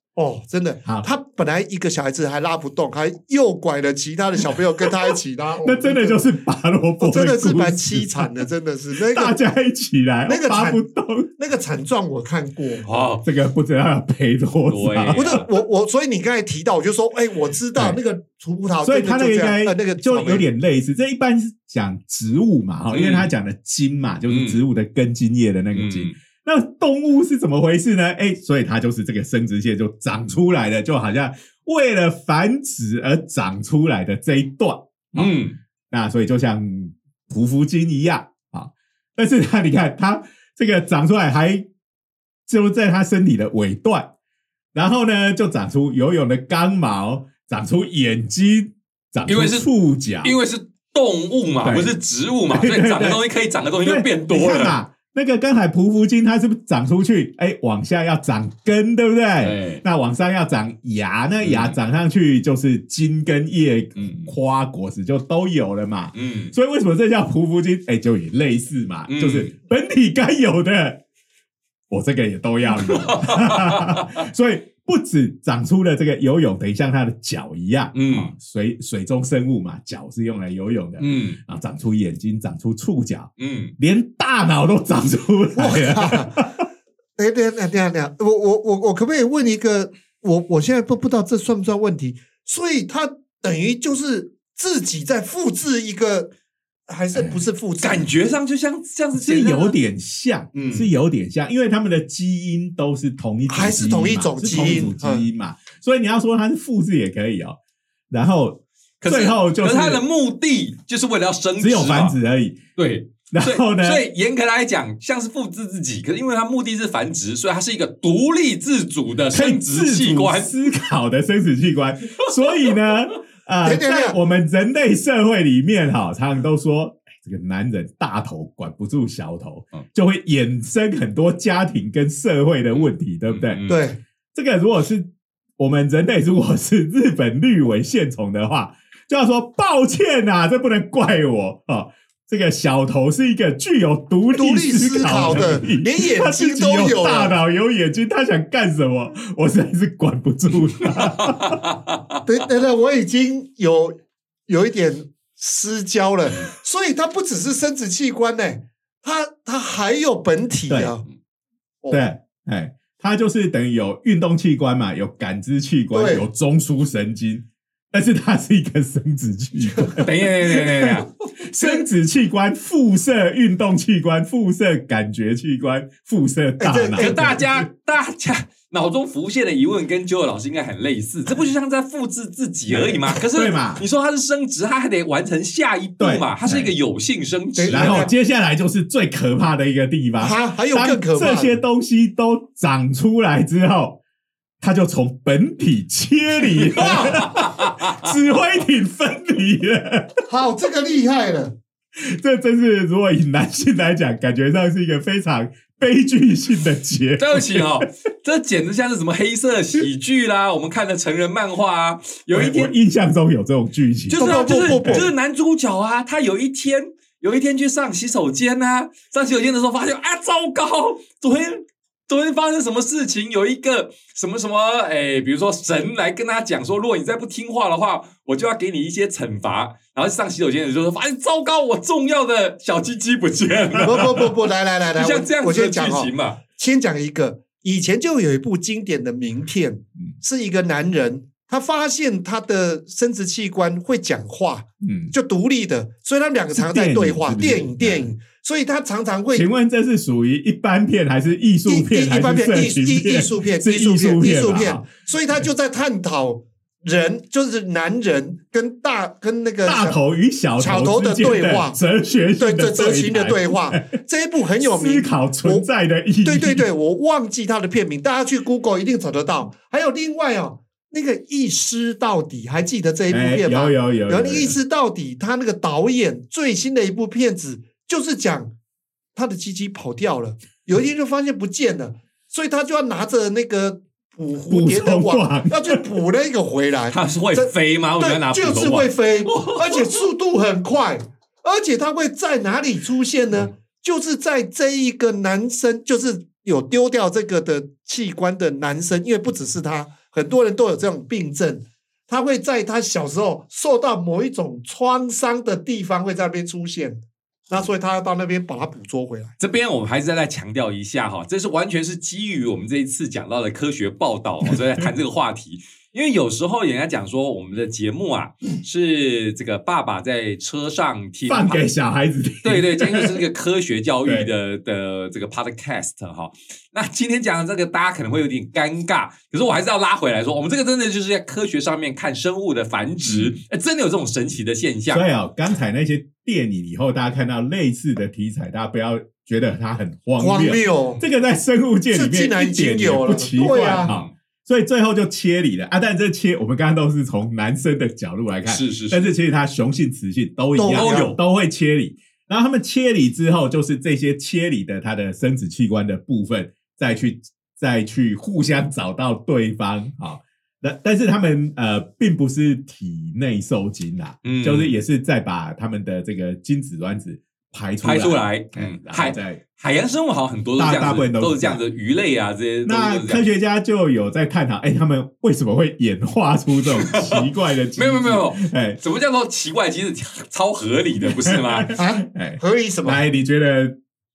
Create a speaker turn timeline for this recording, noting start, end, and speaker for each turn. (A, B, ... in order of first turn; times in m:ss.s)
0:00.2-0:06.2 A
0:05.6-0:08.5 B
0:07.0-0:09.4 A
0:09.1-0:11.3 B
0:10.3-0:10.8 A
0:11.4-0:12.9 A
0:12.8-0:13.2 C
0:13.2-0:15.4 B
0:14.7-0:15.5 C
0:15.2-0:20.5 A
0:18.8-0:41.7 B
0:22.9-0:23.3 C
0:24.3-0:24.6 C
0:25.7-0:26.2 C
0:35.2-0:35.6 C
0:42.5-0:44.1 B
0:44.7-0:50.4 B
0:49.3-0:49.7 C
0:50.2-0:54.8 C
0:51.6-0:51.9 B
0:52.5-0:53.2 B
0:53.8-1:11.0 B
0:59.4-0:59.8 C
1:01.4-1:01.8 C
1:04.0-1:04.3 C
1:06.2-1:06.5 C
1:09.1-1:09.5 C
1:11.9-1:26.6 B
1:12.7-1:14.2 C
1:17.9-1:18.3 C
1:21.0-1:21.4 C
1:23.4-1:23.7 C
1:25.6-1:26.5 A
1:27.2-1:36.3 A
1:36.9-1:38.1 A
1:37.1-1:37.4 B
1:37.8-1:39.8 C
1:39.2-1:47.6 B
1:40.5-1:40.9 C
1:43.5-1:45.3 A
1:48.1-1:50.0 B
1:49.0-1:52.2 C
1:51.6-1:52.6 B
1:52.8-2:00.5 C
1:53.3-1:54.0 B
1:59.3-2:13.6 B
2:03.6-2:04.2 A
2:12.7-2:13.9 C
2:13.7-2:14.0 A
2:14.3-2:31.6 B
2:24.3-2:27.4 A
2:30.8-2:32.0 C
2:32.3-2:41.0 A
2:40.7-2:41.0 B
2:41.9-2:57.7 B
2:45.9-2:46.3 A
2:49.7-2:50.0 A
2:50.0-2:51.8 C
2:56.6-2:57.4 A
2:57.0-3:08.1 C
3:02.7-3:03.8 B
3:06.0-3:06.7 B
3:07.6-3:08.1 A
3:07.7-3:14.0 B
3:10.2-3:11.6 A
3:14.6-3:20.2 B
3:16.6-3:18.1 C
3:16.8-3:17.2 A
3:20.3-3:21.6 A
3:22.0-3:27.9 B
3:27.2-3:32.7 C
3:32.3-3:35.1 B
3:34.1-3:54.3 C
3:34.1-3:35.1 A
3:53.8-4:09.5 A
3:54.9-3:56.4 C
4:04.8-4:05.1 B
4:06.6-4:08.1 B
4:09.4-4:14.9 B
4:11.7-4:20.0 A
4:19.6-4:23.9 B
4:20.6-4:21.8 A
4:22.4-4:25.7 A
4:24.6-4:26.7 B
4:26.2-4:38.5 A
4:33.1-4:34.6 B
4:39.2-5:09.3 A
4:44.5-4:45.8 B
4:46.9-4:50.0 C
5:09.4-5:21.6 C
5:14.5-5:14.8 B
5:21.3-5:23.2 B
5:22.4-5:35.0 C
5:24.0-5:24.3 B
5:33.0-5:33.4 B
5:34.9-6:09.4 B
5:40.2-5:41.0 A
5:41.9-5:43.9 A
5:43.8-5:44.1 C
5:48.5-5:49.1 C
5:50.6-5:51.1 A
5:50.7-5:51.2 C
6:04.2-6:04.8 C
6:07.8-6:13.2 C
6:10.6-6:11.6 B
6:12.6-6:18.8 B
6:16.7-6:21.8 C
6:21.0-6:23.8 B
6:21.8-6:23.0 A